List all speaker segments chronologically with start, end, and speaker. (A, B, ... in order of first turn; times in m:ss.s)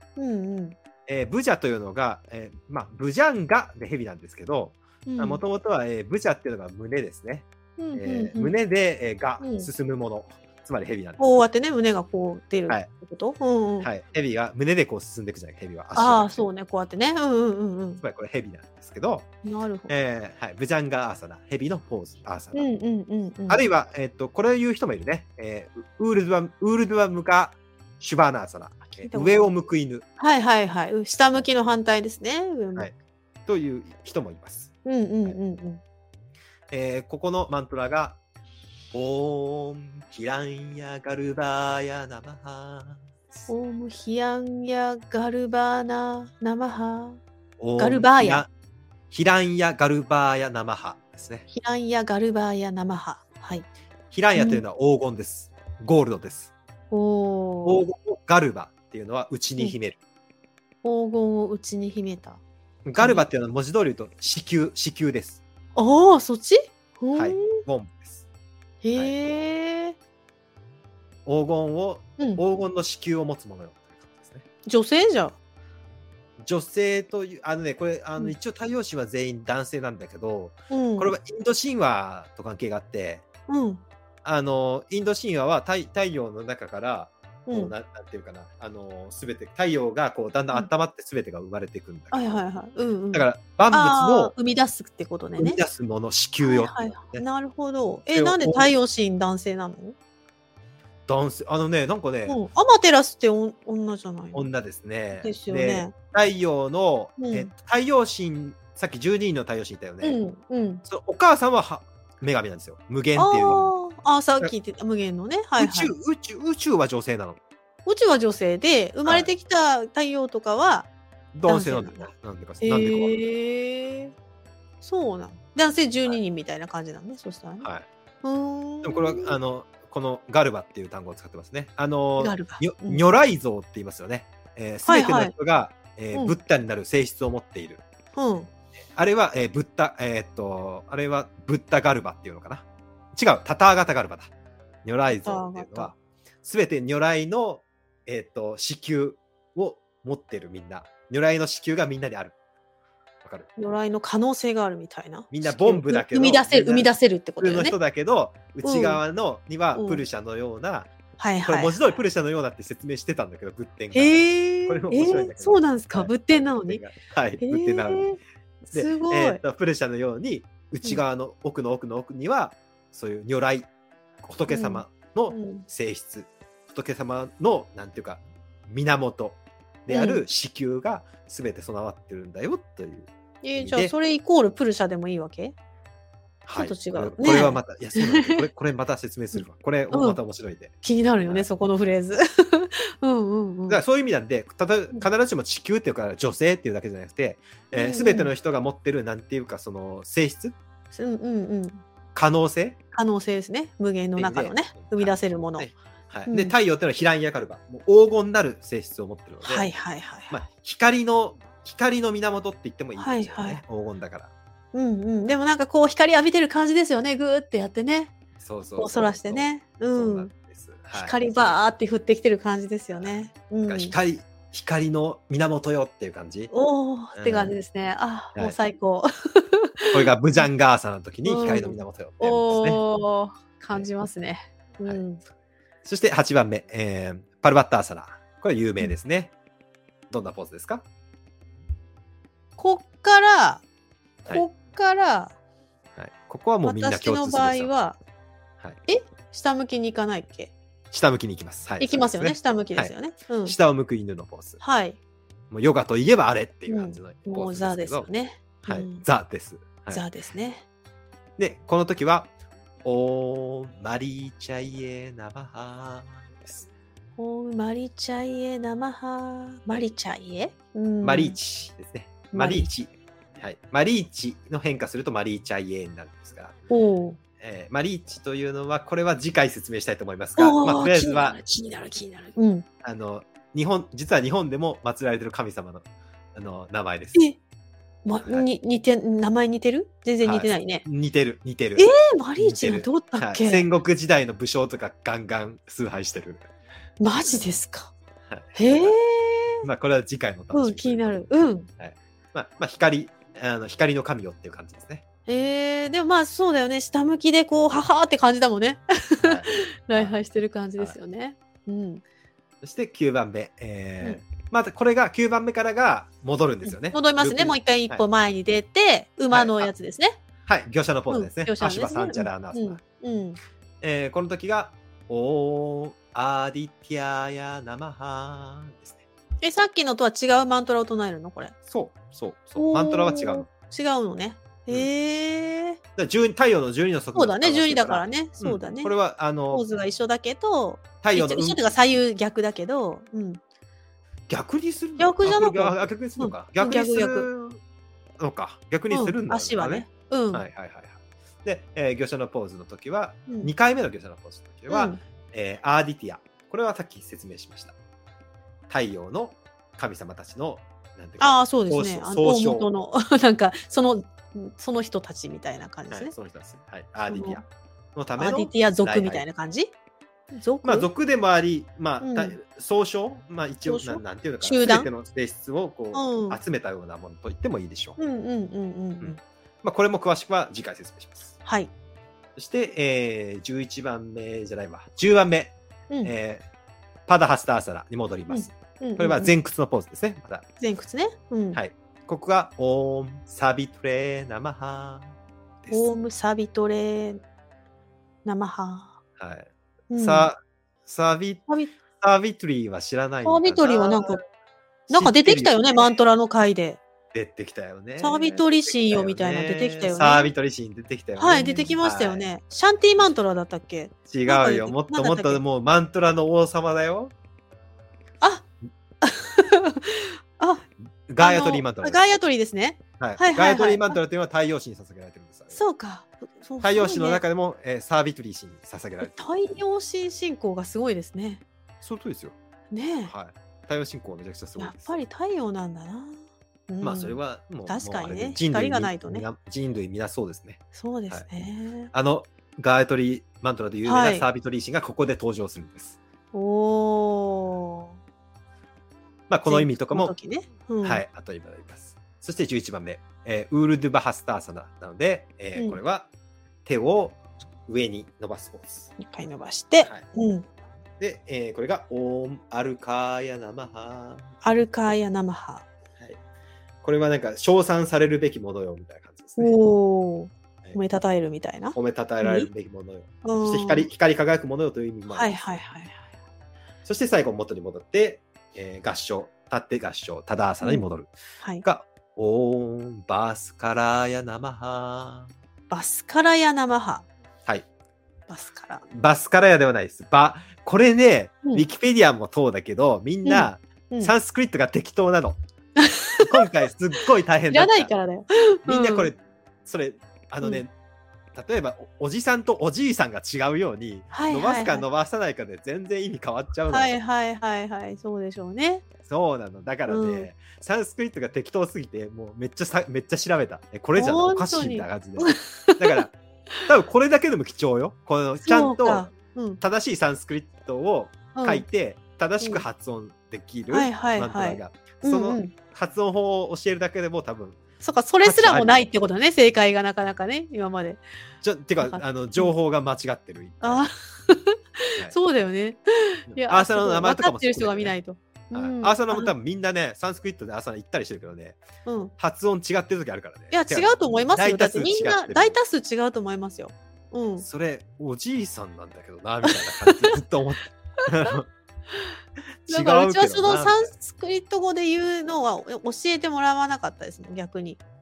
0:00.2-0:00.8 A
0:01.1-0:11.4 B
0:05.1-0:05.4 A
0:07.8-0:08.5 A
0:09.4-0:09.7 A
0:11.2-0:13.9 A
0:13.8-0:16.4 B
0:16.0-0:18.0 A
0:18.0-0:19.3 B
0:19.4-0:19.9 A
0:19.9-0:22.7 B
0:22.5-0:23.6 A
0:23.5-0:30.0 B
0:29.0-0:29.5 A
0:30.2-0:32.9 A
0:33.5-0:34.7 B
0:34.8-0:35.8 A
0:36.7-0:38.2 B
0:38.9-0:43.5 B
0:43.5-0:47.2 A
0:47.6-0:48.5 B
0:47.8-0:48.4 A
0:49.1-0:51.5 B
0:51.5-0:53.7 A
0:54.1-0:56.5 B
0:54.4-0:54.6 A
0:56.9-0:57.8 A
0:57.6-1:00.0 B
1:00.8-1:02.4 A
1:02.8-1:05.4 B
1:03.0-1:03.2 A
1:05.8-1:07.6 A
1:07.2-1:08.2 B
1:08.8-1:10.0 A
1:11.3-1:14.4 B
1:12.2-1:12.4 A
1:14.7-1:15.4 A
1:16.4-1:23.2 B
1:20.7-1:21.1 A
1:23.5-1:23.8 A
1:24.2-1:32.4 B
1:27.5-1:27.7 A
1:32.1-1:35.6 A
1:33.1-1:34.3 B
1:35.4-1:37.2 B
1:36.4-1:40.0 A
1:38.1-1:38.7 B
1:41.1-1:42.4 B
1:42.3-1:44.5 A
1:44.3-1:50.2 B
1:45.2-1:45.9 A
1:47.2-1:47.5 A
1:50.0-1:50.8 A
1:50.9-1:53.8 B
1:53.2-1:55.9 A
1:55.6-1:57.4 B
1:57.9-2:00.9 A
2:01.3-2:03.2 B
2:01.5-2:04.1 A
2:04.8-2:07.7 A
2:08.2-2:09.4 A
2:08.8-2:17.8 B
2:12.2-2:13.0 A
2:14.9-2:15.3 A
2:18.2-2:18.5 A
2:19.0-2:24.3 B
2:24.8-2:32.4 B
2:25.1-2:25.9 A
2:33.2-2:33.5 B
2:33.6-2:37.8 A
2:35.3-2:40.9 B
2:38.6-2:39.0 A
2:39.8-2:40.0 A
2:41.2-2:41.9 A
2:41.5-2:48.1 B
2:43.9-2:46.8 A
2:47.4-2:49.4 A
2:48.7-2:53.7 B
2:54.2-3:03.9 B
2:54.5-2:55.7 A
2:59.9-3:00.2 A
3:03.4-3:05.6 A
3:06.5-3:11.5 B
3:06.6-3:08.5 A
3:09.4-3:10.2 A
3:10.8-3:13.8 A
3:13.7-3:20.6 B
3:17.7-3:18.3 A
3:20.9-3:21.8 A
3:22.2-3:22.8 B
3:22.9-3:25.7 A
3:24.2-3:29.7 B
3:26.3-3:26.5 A
3:29.4-3:30.4 A
3:30.3-3:34.3 B
3:33.0-3:33.6 A
3:34.7-3:38.1 A
3:38.4-3:41.6 B
3:38.8-3:40.3 A
3:40.9-3:44.0 A
3:43.0-3:46.5 B
3:46.5-3:50.4 A
3:47.1-3:47.6 B
3:49.9-3:52.8 B
3:51.2-3:55.2 A
3:55.8-3:59.3 B
4:00.1-4:00.8 B
4:02.6-4:03.6 A
4:04.3-4:05.4 A
4:06.0-4:07.7 B
4:06.6-4:08.0 A
4:08.9-4:10.5 A
4:10.9-4:12.9 B
4:11.8-4:13.6 A
4:13.4-4:14.6 B
4:14.6-4:15.0 A
4:15.5-4:18.1 B
4:16.7-4:19.0 A
4:18.6-4:20.0 B
4:19.9-4:20.6 A
4:21.4-4:22.3 B
4:22.8-4:26.7 B
4:27.2-4:31.4 A
4:31.0-4:36.6 B
4:32.3-4:32.7 A
4:36.7-4:37.2 A
4:37.4-4:41.4 B
4:40.4-4:42.7 A
4:42.8-4:47.2 B
4:48.0-4:50.9 A
4:50.2-4:56.5 B
4:51.8-4:53.7 A
4:57.0-4:57.9 A
4:58.3-4:59.0 B
4:58.6-4:59.6 A
4:59.6-5:01.2 B
5:00.5-5:01.7 A
5:01.8-5:05.0 B
5:05.3-5:12.0 A
5:09.2-5:10.2 B
5:12.6-5:18.0 B
5:16.6-5:20.2 A
5:19.3-5:19.7 B
5:20.5-5:22.8 B
5:21.1-5:23.4 A
5:23.8-5:29.0 B
5:29.4-5:31.6 A
5:31.7-5:33.5 B
5:32.6-5:35.8 A
5:36.0-5:39.6 B
5:37.2-5:38.9 A
5:39.5-5:43.4 A
5:41.0-5:41.7 B
5:44.3-5:47.6 B
5:45.0-5:47.3 A
5:48.2-5:57.8 B
5:48.9-5:50.4 A
5:54.7-5:55.0 A
5:58.7-6:02.7 B
6:01.2-6:06.1 A
6:05.9-6:09.2 B
6:07.1-6:07.4 A
6:08.2-6:09.7 A
6:10.3-6:10.9 A
6:10.6-6:18.0 B
6:12.0-6:12.4 A
6:13.6-6:14.9 A
6:15.9-6:16.4 A
6:18.0-6:19.2 A
6:19.0-6:21.4 B
6:21.4-6:21.7 A
6:22.4-6:26.4 B
6:27.1-6:30.5 B
6:28.3-6:29.3 A
6:30.6-6:31.6 A
6:31.5-6:35.9 B
6:35.7-6:37.2 A
6:38.2-6:39.0 A
6:39.2-6:41.4 B
6:39.9-6:40.3 A
6:41.5-6:41.7 A
6:42.0-6:44.2 B
6:43.2-6:44.2 A
6:44.9-6:46.8 A
6:44.9-6:45.8 B
6:47.1-6:52.2 B
6:48.0-6:50.3 A
6:51.2-6:55.4 A
6:54.1-6:57.1 B
6:58.2-6:58.5 A
6:59.0-7:00.6 A
7:01.1-7:02.0 B
7:01.2-7:04.0 A
7:03.0-7:05.6 B
7:05.5-7:07.2 A
7:06.6-7:09.4 B
7:09.0-7:11.4 A
7:11.8-7:12.4 B
7:12.7-7:13.1 A
7:13.1-7:15.0 B
7:14.6-7:19.3 A
7:16.8-7:21.2 B
7:20.7-7:21.9 A
7:21.9-7:26.0 B
7:23.8-7:24.3 A
7:26.3-7:28.0 A
7:29.3-7:30.1 B
7:29.5-7:31.0 A
7:30.8-7:36.1 B
7:36.6-7:38.9 B
7:39.0-7:40.5 A
7:41.0-7:44.3 B
7:44.4-7:45.7 A
7:46.8-7:49.5 B
7:49.4-7:52.5 A
7:51.7-7:55.6 B
7:53.2-7:53.9 A
7:55.1-7:56.1 A
7:56.8-8:01.1 B
8:01.6-8:05.3 B
8:05.7-8:07.1 A
8:08.3-8:08.8 A
8:08.9-8:15.4 B
8:13.2-8:14.1 A
8:15.8-8:16.7 A
8:16.2-8:17.9 B
8:17.5-8:19.1 A
8:18.7-8:20.7 B
8:21.3-8:27.0 B
8:24.1-8:24.9 A
8:26.7-8:28.8 A
8:29.0-8:36.1 B
8:29.9-8:30.3 A
8:34.0-8:36.0 A
8:36.7-8:39.1 B
8:38.4-8:39.6 A
8:39.6-8:47.6 B
8:41.4-8:41.7 A
8:43.7-8:45.5 A
8:47.8-8:51.0 A
8:48.2-8:48.8 B
8:51.4-8:53.9 B
8:51.8-8:52.5 A
8:53.6-8:59.3 A
8:56.3-8:58.0 B
8:58.5-9:01.6 B
9:01.9-9:02.1 A
9:02.2-9:05.6 B
9:03.5-9:07.5 A
9:07.4-9:11.5 B
9:09.4-9:10.2 A
9:11.0-9:11.4 A
9:12.7-9:13.9 B
9:12.7-9:17.8 A